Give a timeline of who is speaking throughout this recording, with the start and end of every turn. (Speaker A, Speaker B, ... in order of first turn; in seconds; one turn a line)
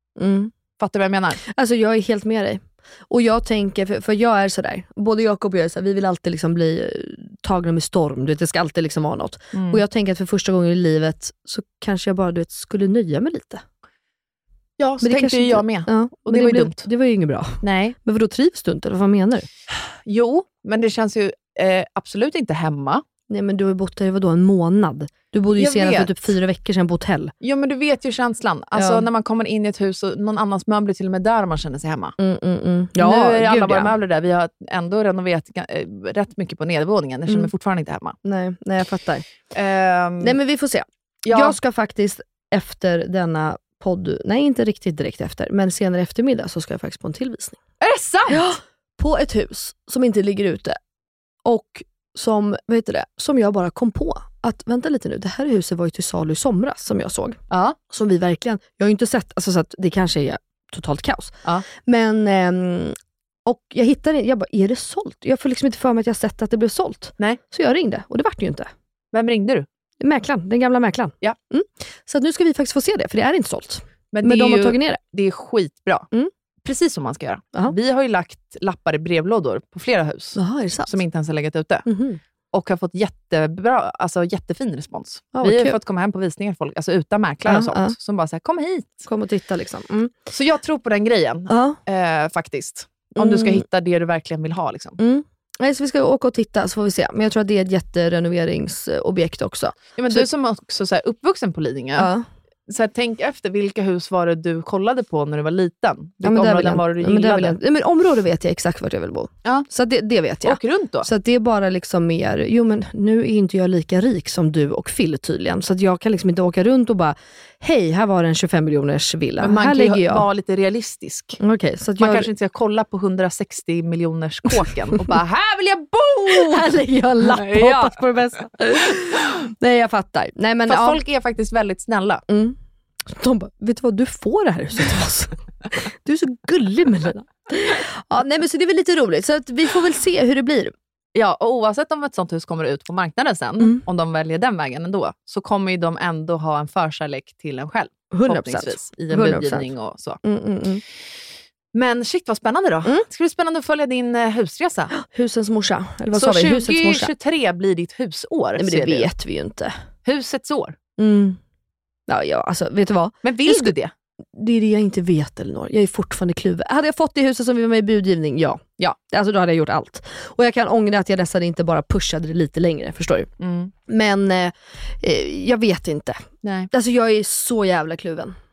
Speaker A: 0.2-0.5
Speaker B: 0.8-1.4
Speaker A: 1.4-13.6
Speaker B: 9.5-9.8
Speaker B: 14.8-16.9
Speaker A: 15.0-19.5
Speaker B: 17.6-17.9
Speaker B: 20.1-23.0
Speaker A: 23.3-27.3
Speaker B: 25.6-26.3
Speaker B: 27.4-32.2
Speaker A: 28.8-29.1
Speaker A: 32.2-34.0
Speaker B: 33.0-38.2
Speaker A: 38.2-39.2
Speaker B: 39.5-40.4
Speaker A: 40.2-47.6
Speaker B: 41.2-41.6
Speaker B: 47.8-48.5
Speaker A: 48.3-50.8
Speaker A: 51.5-57.4
Speaker B: 57.5-57.8
Speaker A: 57.9-68.7
Speaker B: 69.1-69.7
Speaker A: 70.0-75.0
Speaker B: 74.1-76.1
Speaker B: 76.6-81.9
Speaker A: 80.4-81.0
Speaker A: 81.9-82.2
Speaker B: 82.5-89.1
Speaker A: 85.3-85.8
Speaker A: 87.5-88.0
Speaker A: 89.1-90.1
Speaker B: 90.3-95.0
Speaker A: 91.5-91.8
Speaker A: 93.2-93.7
Speaker A: 95.0-100.3
Speaker B: 100.0-102.1
Speaker A: 102.0-102.3
Speaker B: 102.7-107.6
Speaker A: 106.2-120.3
Speaker B: 110.4-111.1
Speaker B: 119.4-121.4
Speaker A: 121.4-122.3
Speaker B: 122.0-126.6
Speaker A: 126.3-131.0
Speaker B: 127.2-128.4
Speaker B: 130.7-132.2
Speaker A: 132.3-140.7
Speaker B: 141.2-150.2
Speaker A: 148.1-149.7
Speaker A: 150.2-150.8
Speaker B: 151.7-154.9
Speaker A: 154.9-157.1
Speaker B: 156.1-159.1
Speaker A: 158.6-159.8
Speaker B: 160.1-160.8
Speaker A: 161.0-161.4
Speaker A: 162.1-163.7
Speaker B: 163.2-163.9
Speaker A: 164.4-173.3
Speaker B: 173.4-173.7
Speaker A: 173.9-178.4
Speaker B: 176.4-176.7